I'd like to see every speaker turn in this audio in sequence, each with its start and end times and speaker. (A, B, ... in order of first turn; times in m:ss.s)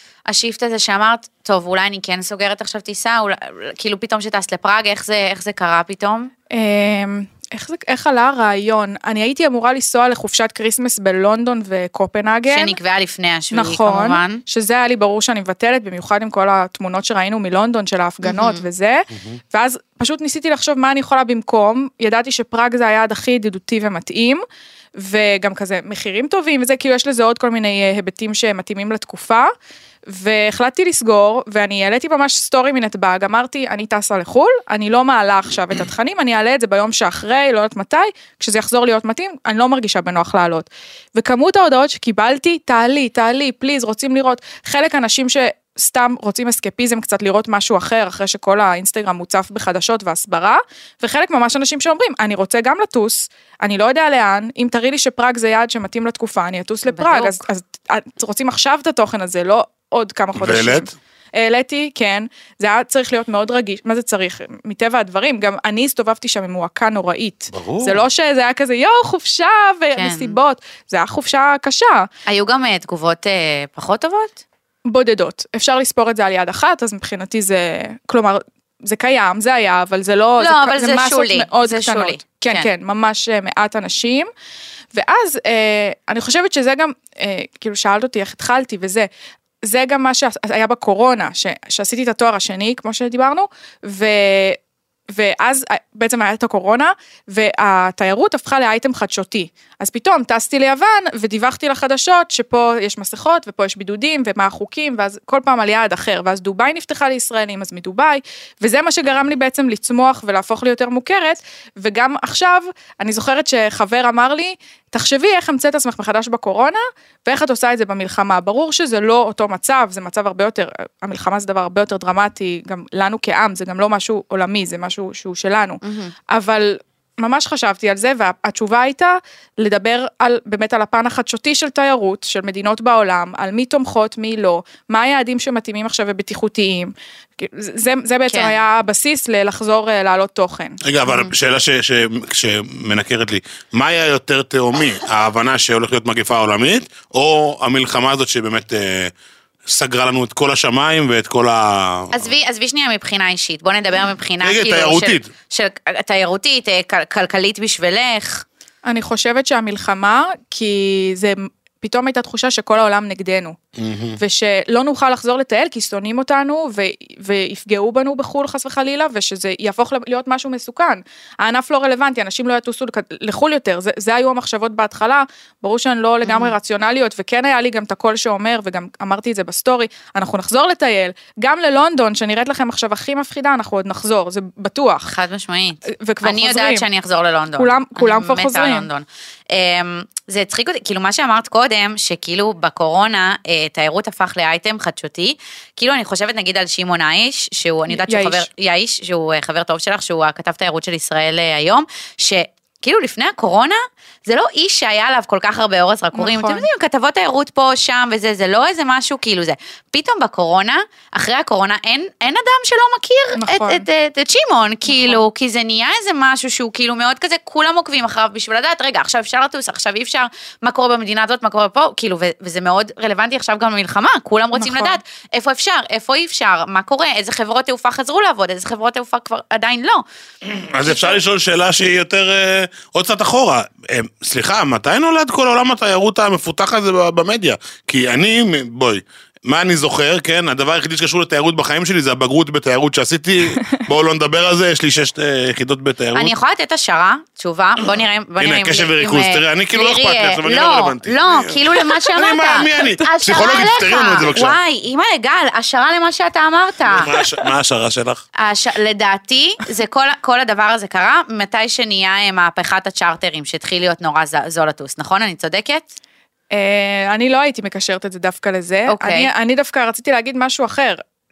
0:00.3-0:06.3 A
0:06.5-0:12.8 B
0:12.5-0:14.4 A
0:13.5-0:24.4 B
0:18.2-0:18.6 A
0:25.0-0:29.5 B
0:30.1-1:12.1 B
0:56.9-0:57.4 A
1:00.3-1:00.9 C
1:07.5-1:08.0 C
1:10.0-1:10.4 A
1:12.3-1:14.4 A
1:14.8-1:24.3 B
1:20.4-1:22.7 A
1:24.9-1:29.1 B
1:29.6-1:34.6 B
1:35.1-2:20.8 B
2:05.8-2:06.1 A
2:18.3-2:18.6 A
2:20.8-2:29.1 C
2:21.1-2:21.3 A
2:29.6-2:32.3 C
2:32.1-2:38.4 A
2:34.4-2:35.3 C
2:38.8-2:43.6 B
2:43.8-2:44.2 C
2:44.2-3:05.1 B
2:56.2-2:56.6 A
3:05.1-3:50.0 A
3:05.9-3:06.8 B
3:07.6-3:08.9 B
3:17.9-3:18.4 B
3:26.1-3:26.7 B
3:33.4-3:33.8 B
3:34.9-3:35.2 B
3:44.6-3:45.0 B
3:50.4-4:06.3 C
4:06.1-4:17.1 A
4:08.4-4:14.6 C
4:12.8-4:13.4 B
4:16.8-4:18.2 C
4:18.4-4:26.0 A
4:26.5-4:31.0 B
4:28.9-4:29.3 A